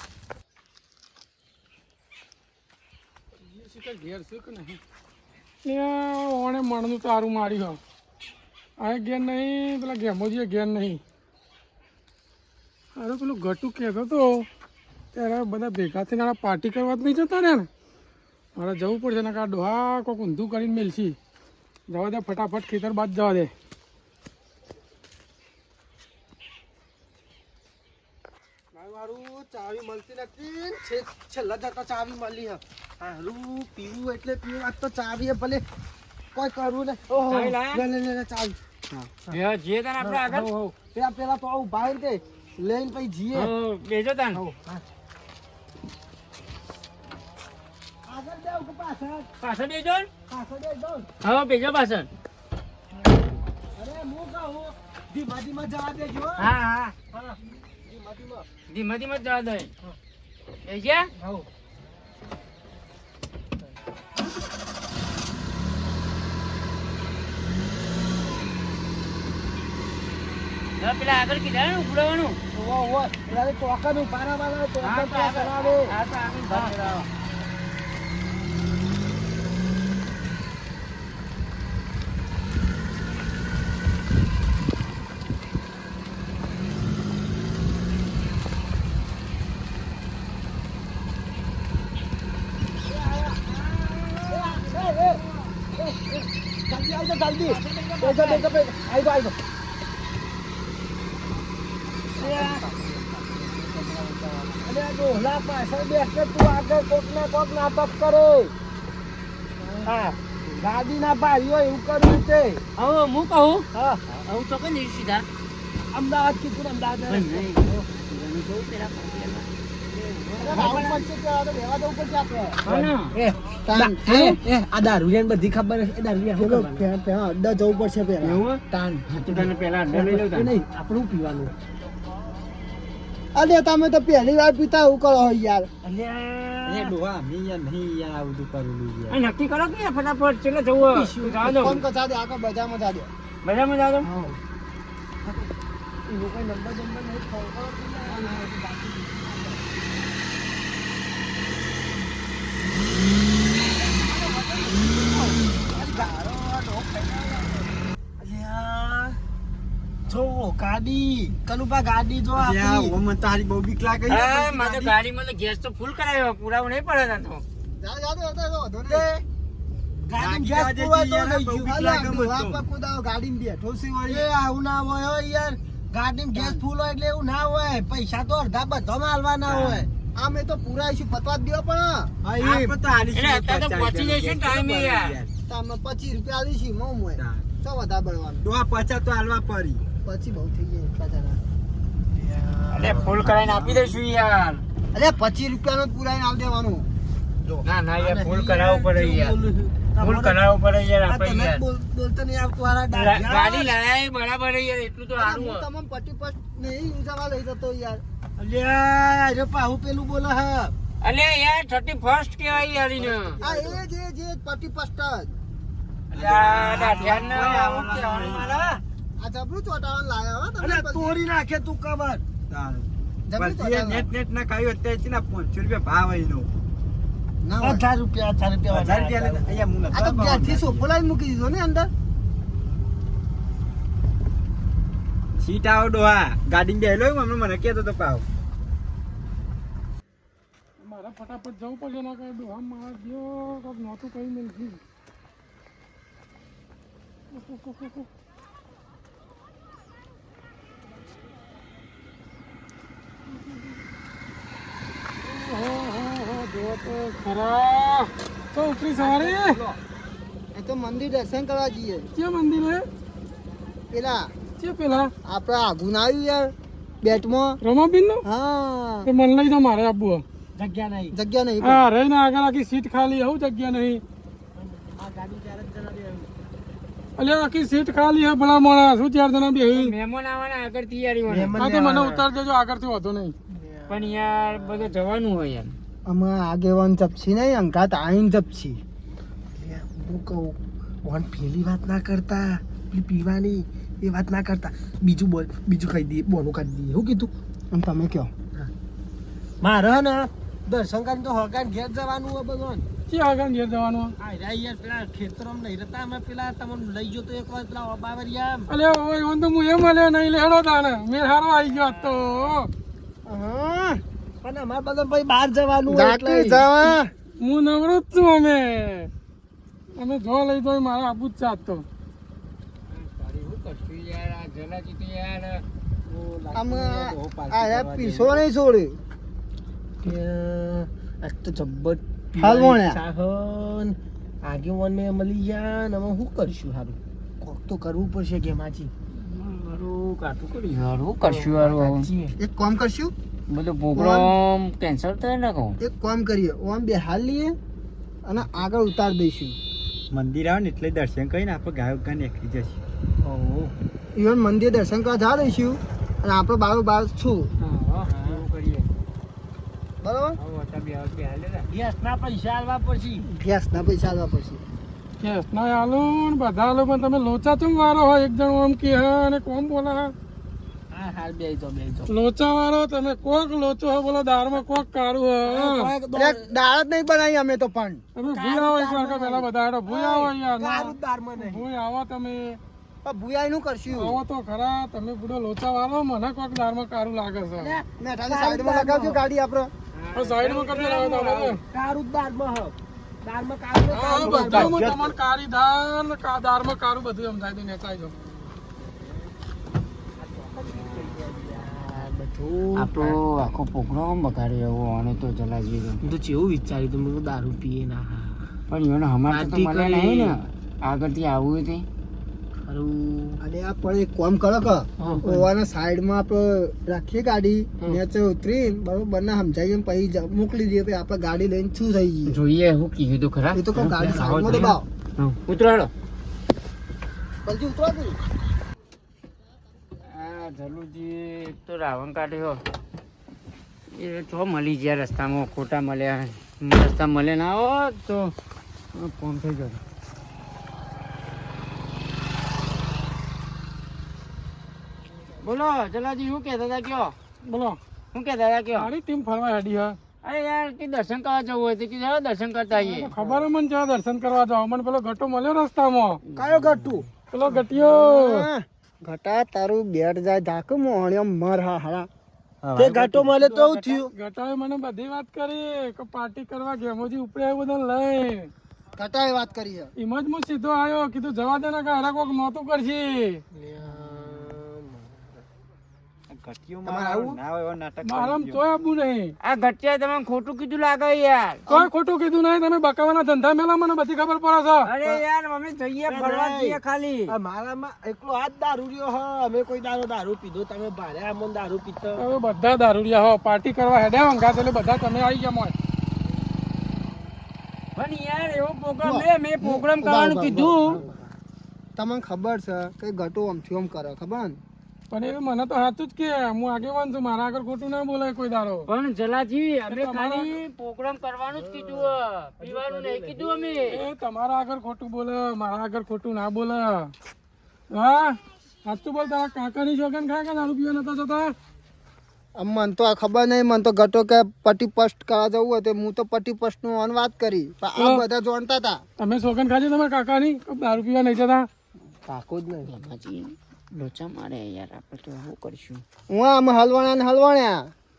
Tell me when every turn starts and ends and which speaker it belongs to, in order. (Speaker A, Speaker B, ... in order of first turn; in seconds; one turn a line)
Speaker A: 3.4-4.8
Speaker A: 5.6-7.8
Speaker A: 8.8-11.0
Speaker A: 13.0-14.4
Speaker A: 15.1-17.7
Speaker A: 18.6-21.1
Speaker A: 21.9-23.5
Speaker B: 28.7-35.6
Speaker B: 36.3-38.6
Speaker C: 37.3-37.8
Speaker C: 38.9-40.5
Speaker B: 40.0-43.5
Speaker C: 43.3-44.4
Speaker B: 44.3-44.8
Speaker B: 48.1-49.3
Speaker C: 49.4-50.1
Speaker B: 50.3-51.1
Speaker C: 51.2-52.1
Speaker B: 52.9-53.2
Speaker B: 53.8-56.4
Speaker C: 56.4-56.9
Speaker B: 57.1-58.5
Speaker C: 58.7-59.7
Speaker C: 60.6-61.1
Speaker B: 61.2-61.5
Speaker C: 70.8-72.4
Speaker B: 72.5-75.9
Speaker C: 74.8-77.1
Speaker B: 76.5-77.0
Speaker C: 92.9-95.3
Speaker B: 94.3-99.3
Speaker C: 97.5-98.5
Speaker B: 102.2-103.4
Speaker C: 102.2-102.6
Speaker D: 102.2-104.8
Speaker B: 104.3-108.5
Speaker B: 109.8-112.6
Speaker C: 112.8-115.2
Speaker B: 113.7-114.0
Speaker B: 115.9-117.7
Speaker C: 117.1-119.5
Speaker B: 119.9-121.0
Speaker D: 120.4-122.6
Speaker C: 120.5-120.8
Speaker B: 122.6-126.8
Speaker C: 122.7-123.1
Speaker D: 123.7-124.4
Speaker D: 126.4-128.4
Speaker C: 128.2-130.5
Speaker B: 128.7-131.5
Speaker D: 133.3-135.7
Speaker B: 135.8-136.9
Speaker E: 136.6-139.2
Speaker C: 139.1-141.8
Speaker B: 140.8-141.7
Speaker D: 141.4-143.1
Speaker C: 143.4-144.1
Speaker B: 144.0-144.4
Speaker B: 145.2-145.5
Speaker B: 146.1-149.7
Speaker D: 148.1-148.5
Speaker B: 153.6-159.2
Speaker B: 160.1-162.9
Speaker E: 162.3-164.9
Speaker C: 164.1-167.4
Speaker D: 167.7-169.1
Speaker B: 168.9-169.2
Speaker B: 170.1-171.8
Speaker E: 170.1-172.6
Speaker D: 171.6-174.3
Speaker B: 174.1-179.9
Speaker D: 176.3-176.6
Speaker E: 179.4-179.9
Speaker D: 180.2-182.1
Speaker E: 182.2-185.3
Speaker B: 182.3-182.8
Speaker C: 183.1-185.2
Speaker D: 185.5-188.4
Speaker E: 187.2-187.5
Speaker E: 188.4-189.8
Speaker D: 190.0-191.4
Speaker B: 192.1-193.3
Speaker C: 192.7-194.6
Speaker E: 192.8-193.9
Speaker D: 194.9-196.9
Speaker B: 197.4-200.4
Speaker C: 197.6-199.4
Speaker C: 200.0-201.6
Speaker B: 201.1-203.7
Speaker C: 202.9-205.7
Speaker D: 205.2-208.0
Speaker B: 208.4-210.7
Speaker C: 211.0-213.4
Speaker B: 212.9-213.8
Speaker D: 213.4-215.4
Speaker C: 216.1-218.8
Speaker E: 216.1-218.8
Speaker D: 219.2-221.2
Speaker B: 220.6-222.2
Speaker E: 222.5-226.5
Speaker D: 223.3-224.1
Speaker D: 227.4-227.8
Speaker B: 227.6-229.9
Speaker E: 228.7-230.9
Speaker D: 229.9-231.9
Speaker E: 235.4-238.2
Speaker A: 240.8-244.8
Speaker A: 247.3-248.1
Speaker A: 253.3-253.7
Speaker A: 255.2-259.6
Speaker B: 258.9-259.6
Speaker D: 260.5-262.1
Speaker A: 262.1-262.9
Speaker D: 263.9-264.3
Speaker A: 264.6-265.1
Speaker D: 265.2-266.5
Speaker D: 267.0-267.6
Speaker A: 267.6-268.2
Speaker D: 268.2-269.1
Speaker A: 269.0-270.2
Speaker B: 270.6-271.1
Speaker D: 271.1-271.9
Speaker A: 271.6-274.0
Speaker B: 274.6-276.3
Speaker A: 277.2-279.9
Speaker C: 279.7-281.6
Speaker B: 281.3-282.2
Speaker A: 281.6-283.3
Speaker B: 283.5-284.9
Speaker C: 283.9-285.7
Speaker D: 286.1-288.8
Speaker B: 289.5-297.3
Speaker D: 297.7-298.3
Speaker B: 299.6-302.9
Speaker A: 303.1-304.1
Speaker B: 304.2-308.7
Speaker A: 308.7-312.7
Speaker B: 311.6-312.4
Speaker D: 313.3-314.0
Speaker B: 314.4-317.0
Speaker D: 315.9-317.1
Speaker A: 317.4-319.1
Speaker A: 319.9-321.8
Speaker C: 322.9-325.6
Speaker B: 326.1-328.4
Speaker D: 326.5-329.0
Speaker B: 330.0-338.9
Speaker D: 332.4-333.0
Speaker C: 339.1-342.1
Speaker B: 341.2-342.3
Speaker D: 342.4-343.1
Speaker C: 343.5-345.8
Speaker D: 343.9-344.3
Speaker D: 345.8-347.6
Speaker D: 348.2-349.6
Speaker E: 350.1-352.8
Speaker B: 353.2-353.7
Speaker D: 354.1-357.5
Speaker C: 357.6-358.9
Speaker B: 358.0-358.4
Speaker D: 360.0-360.4
Speaker C: 360.4-361.7
Speaker B: 361.7-363.2
Speaker D: 363.2-364.6
Speaker A: 365.2-370.1
Speaker B: 370.9-372.1
Speaker A: 372.1-375.9
Speaker B: 375.4-376.5
Speaker D: 376.1-378.0
Speaker A: 378.1-382.6
Speaker B: 378.2-381.6
Speaker D: 383.0-384.2
Speaker A: 383.9-387.8
Speaker B: 387.6-389.2
Speaker D: 388.0-389.7
Speaker C: 389.9-391.6
Speaker A: 390.1-391.6
Speaker B: 391.7-395.0
Speaker A: 393.9-398.1
Speaker E: 394.4-394.9
Speaker B: 398.4-399.1
Speaker B: 400.1-403.2
Speaker C: 402.8-406.0
Speaker B: 406.0-408.5
Speaker C: 408.7-411.8
Speaker B: 409.3-410.4
Speaker B: 412.6-413.4
Speaker D: 413.4-422.4
Speaker B: 415.0-415.5
Speaker C: 422.3-425.9
Speaker D: 423.5-424.9
Speaker D: 427.4-428.2
Speaker C: 430.0-432.6
Speaker C: 433.9-438.3
Speaker C: 438.9-439.8
Speaker C: 445.4-447.1
Speaker A: 447.5-447.8
Speaker C: 448.1-448.9
Speaker A: 448.7-450.0
Speaker C: 450.2-453.1
Speaker A: 452.8-456.2
Speaker B: 456.3-457.1
Speaker E: 456.5-457.0
Speaker A: 457.3-458.5
Speaker D: 457.8-462.1
Speaker E: 462.6-463.8
Speaker B: 462.7-464.1
Speaker A: 464.1-468.5
Speaker D: 468.9-469.9
Speaker A: 470.0-473.4
Speaker B: 473.5-475.4
Speaker E: 476.3-478.6
Speaker D: 476.8-477.4
Speaker A: 478.0-479.3
Speaker C: 479.4-481.6
Speaker A: 481.7-484.9
Speaker C: 484.8-487.3
Speaker B: 486.1-492.2
Speaker A: 492.2-495.7
Speaker C: 497.9-501.0
Speaker D: 499.0-501.0
Speaker B: 500.9-501.3
Speaker D: 502.0-504.6
Speaker A: 505.1-508.9
Speaker C: 508.9-514.0
Speaker A: 509.9-510.5
Speaker B: 511.5-513.9
Speaker A: 513.9-517.1
Speaker A: 517.9-521.5
Speaker D: 522.6-529.0
Speaker A: 528.0-528.2
Speaker A: 529.2-531.7
Speaker B: 532.2-532.9
Speaker C: 532.8-536.0
Speaker D: 536.3-537.9